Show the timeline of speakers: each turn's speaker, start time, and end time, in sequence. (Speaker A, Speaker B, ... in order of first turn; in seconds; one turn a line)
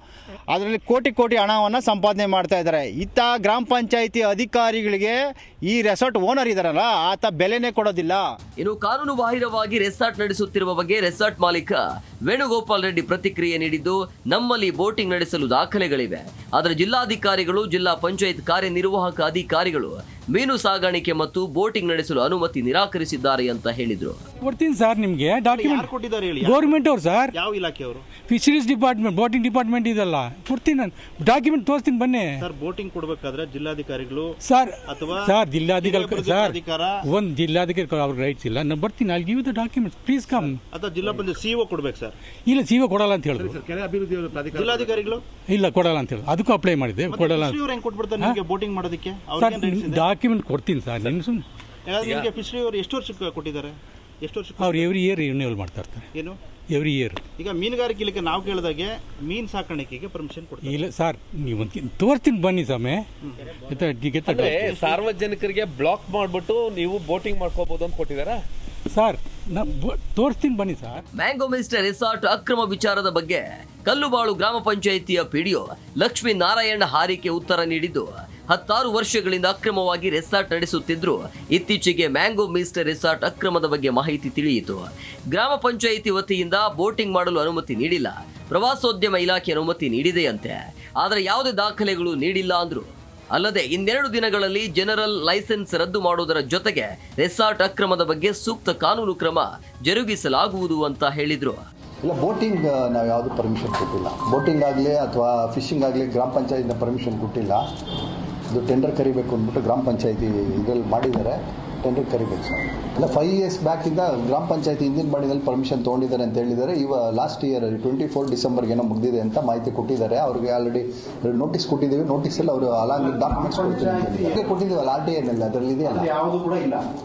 Speaker A: 0.5-5.2
Speaker A: 5.7-8.2
Speaker B: 8.6-24.2
Speaker C: 24.4-25.9
Speaker D: 25.5-26.8
Speaker C: 26.4-27.3
Speaker D: 27.3-28.1
Speaker C: 28.3-32.3
Speaker D: 32.4-34.3
Speaker C: 34.4-40.6
Speaker D: 34.9-37.0
Speaker D: 40.7-42.2
Speaker C: 42.5-43.6
Speaker E: 43.4-45.1
Speaker D: 44.5-45.2
Speaker C: 45.5-47.6
Speaker D: 47.1-50.1
Speaker C: 49.4-51.4
Speaker D: 51.9-54.9
Speaker C: 54.6-56.1
Speaker D: 56.1-56.4
Speaker C: 56.7-57.2
Speaker D: 57.4-60.8
Speaker C: 60.6-63.0
Speaker C: 63.7-65.0
Speaker E: 64.2-68.4
Speaker C: 68.9-71.0
Speaker B: 71.1-101.6
Speaker F: 102.0-107.6
Speaker F: 108.5-126.1
Speaker D: 122.9-124.4
Speaker D: 125.9-126.8